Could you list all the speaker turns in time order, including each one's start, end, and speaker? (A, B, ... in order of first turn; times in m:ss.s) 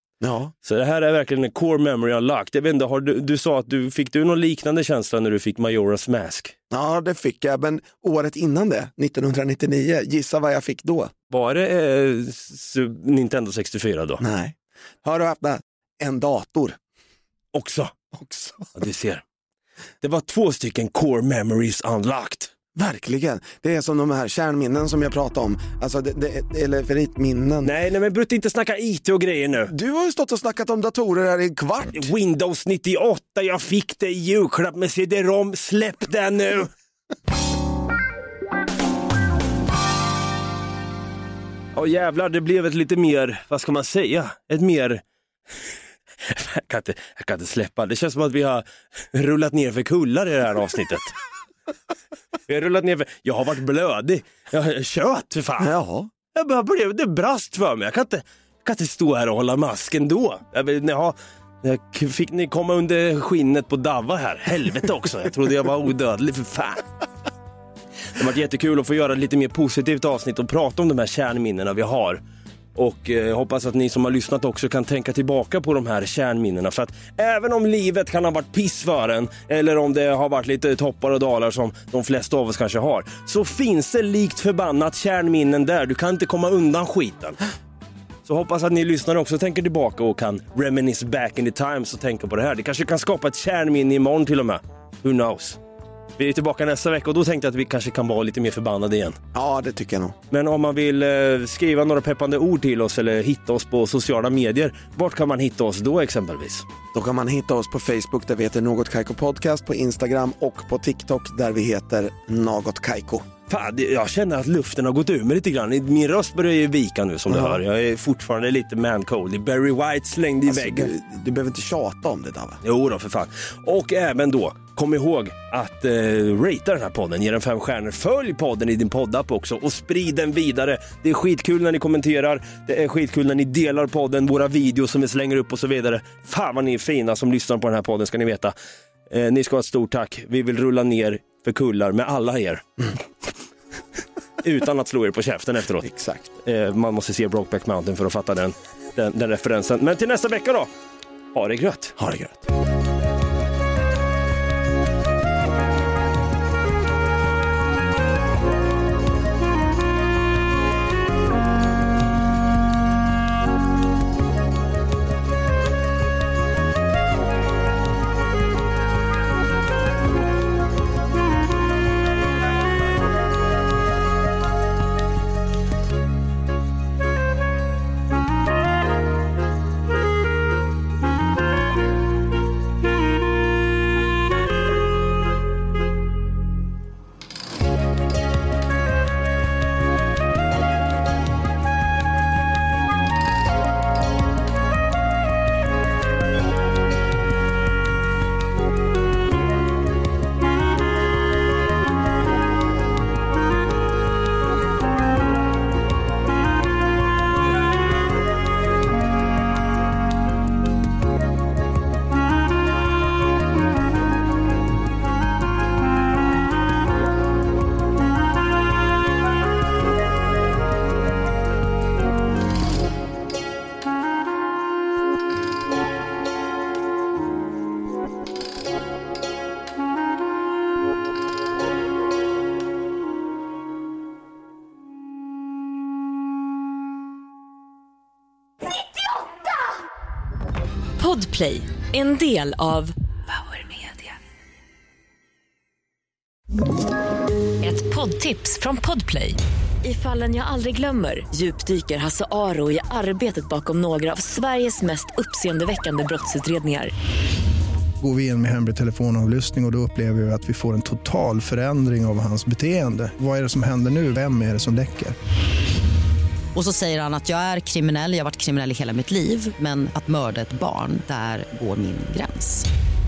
0:00.2-0:00.5 A
0:00.6-0:06.5 B
0:06.7-0:11.1 A
0:11.3-0:14.2 B
0:14.2-0:16.8 A
0:17.5-0:17.9 B
0:18.1-0:18.7 A
0:18.7-0:19.2 B
0:20.0-0:22.5 B
0:22.7-0:27.7 A
0:27.6-0:29.7 B
0:29.7-0:32.1 A
0:31.9-0:36.7 B
0:41.7-0:45.0 B
0:46.2-0:51.1 B
0:52.5-0:55.7 B
0:55.6-0:56.1 A
0:56.3-1:06.8 B
1:08.2-1:12.2 B
1:12.8-1:27.4 B
1:28.2-1:35.6 B
1:36.2-1:39.2 B
1:39.3-1:40.2 A
1:40.3-1:46.6 B
1:46.9-1:53.3 A
1:53.5-2:00.9 B
1:57.3-1:57.6 A
2:00.5-2:02.6 A
2:02.6-2:18.5 B
2:19.1-2:22.8 B
2:24.4-2:25.9 B
2:25.8-2:26.3 A
2:26.4-2:30.7 B
2:31.3-2:31.9 B
2:32.0-2:32.5 A
4:01.0-4:04.1 C
4:07.6-4:16.9 C
4:18.0-4:25.2 D
4:26.5-4:32.6 E